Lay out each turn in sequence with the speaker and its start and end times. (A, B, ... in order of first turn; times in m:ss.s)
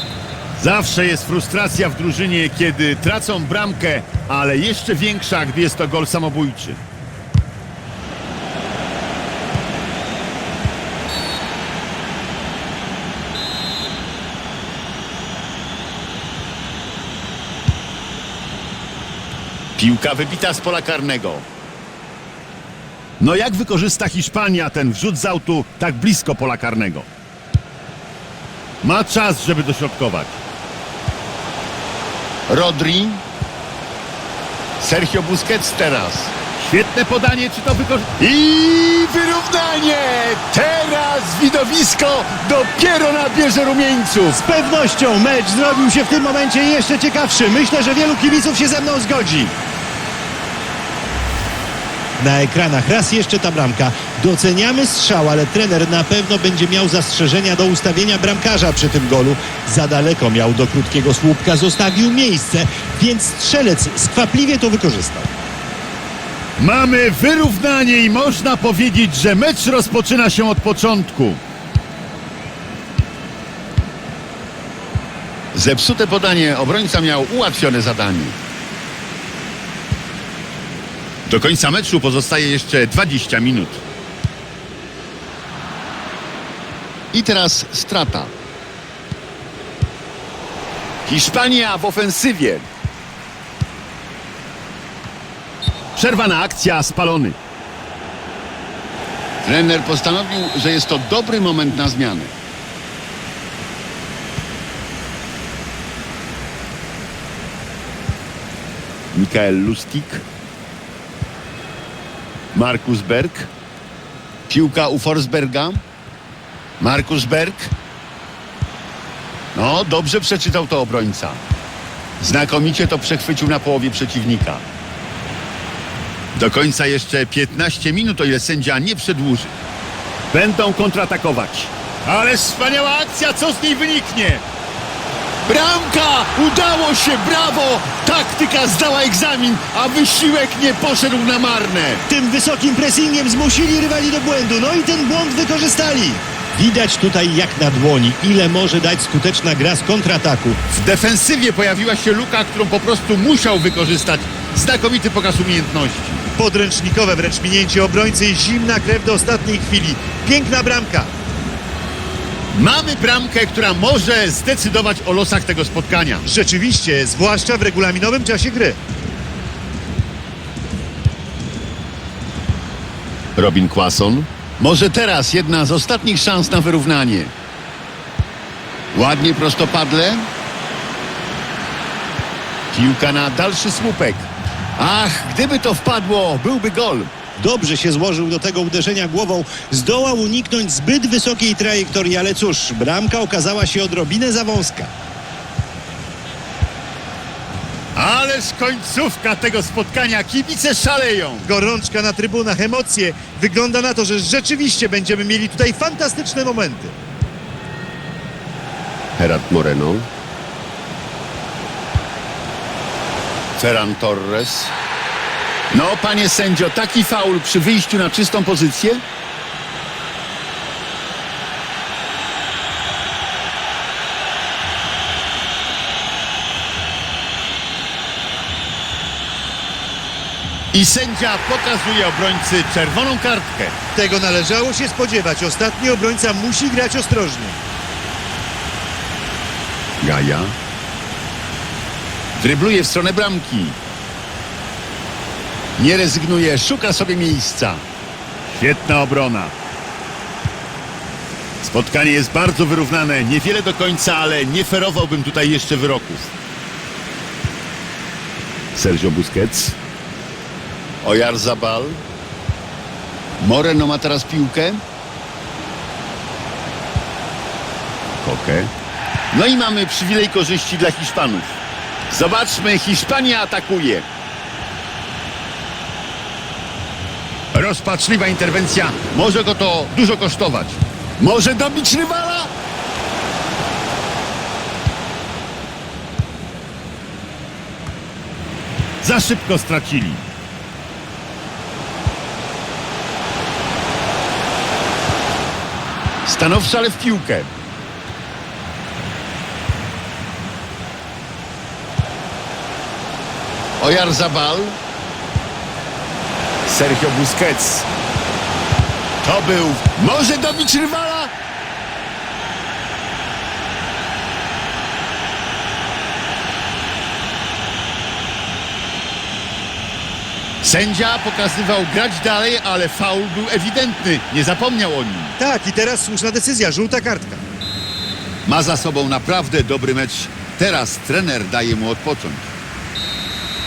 0:00.6-0:06.8 A
0:19.8-0:21.4 A
0:23.2-0:27.1 A
0:28.8-0:30.4 A
0:32.5-0:33.2 A
0:34.8-0:44.4 A
0:44.4-0:49.5 B
0:52.2-1:05.3 B
1:06.6-1:11.4 A
1:15.5-1:18.4 A
1:21.2-1:23.8 A
1:27.1-1:28.3 A
1:31.0-1:32.6 A
1:35.9-1:37.4 A
1:39.4-1:42.3 A
1:49.1-1:50.2 A
1:52.5-1:53.5 A
1:54.5-1:55.8 A
1:56.8-1:57.7 A
1:59.5-2:01.4 A
2:02.2-2:04.6 A
2:06.3-2:09.5 A
2:10.3-2:14.4 A
2:15.4-2:22.0 A
2:22.1-2:30.6 B
2:30.7-2:36.2 A
2:36.4-2:41.1 B
2:42.5-2:46.2 A
2:46.2-2:48.8 B
2:53.4-2:57.3 A
2:58.9-3:00.2 A
3:02.7-3:07.1 A
3:07.4-3:14.9 B
3:17.9-3:21.5 A
3:21.4-3:26.9 B
3:29.2-3:30.1 A
3:33.6-3:34.7 A
3:35.7-3:39.0 A
3:50.7-3:53.7 A
3:54.0-3:57.6 B
4:00.0-4:00.5 A
4:02.4-4:03.8 A
4:05.8-4:07.8 A
4:08.4-4:09.5 A
4:11.6-4:16.3 A
4:18.7-4:19.8 A
4:21.0-4:22.0 A
4:23.4-4:24.8 A
4:28.2-4:28.7 A
4:29.3-4:31.6 A
4:32.1-4:34.0 A
4:37.5-4:42.5 A
4:49.0-4:50.2 A
4:56.2-4:57.5 A
5:03.8-5:04.8 A
5:06.7-5:07.9 A
5:09.2-5:11.3 A
5:20.6-5:25.4 A
5:25.4-5:27.4 B
5:28.4-5:32.5 A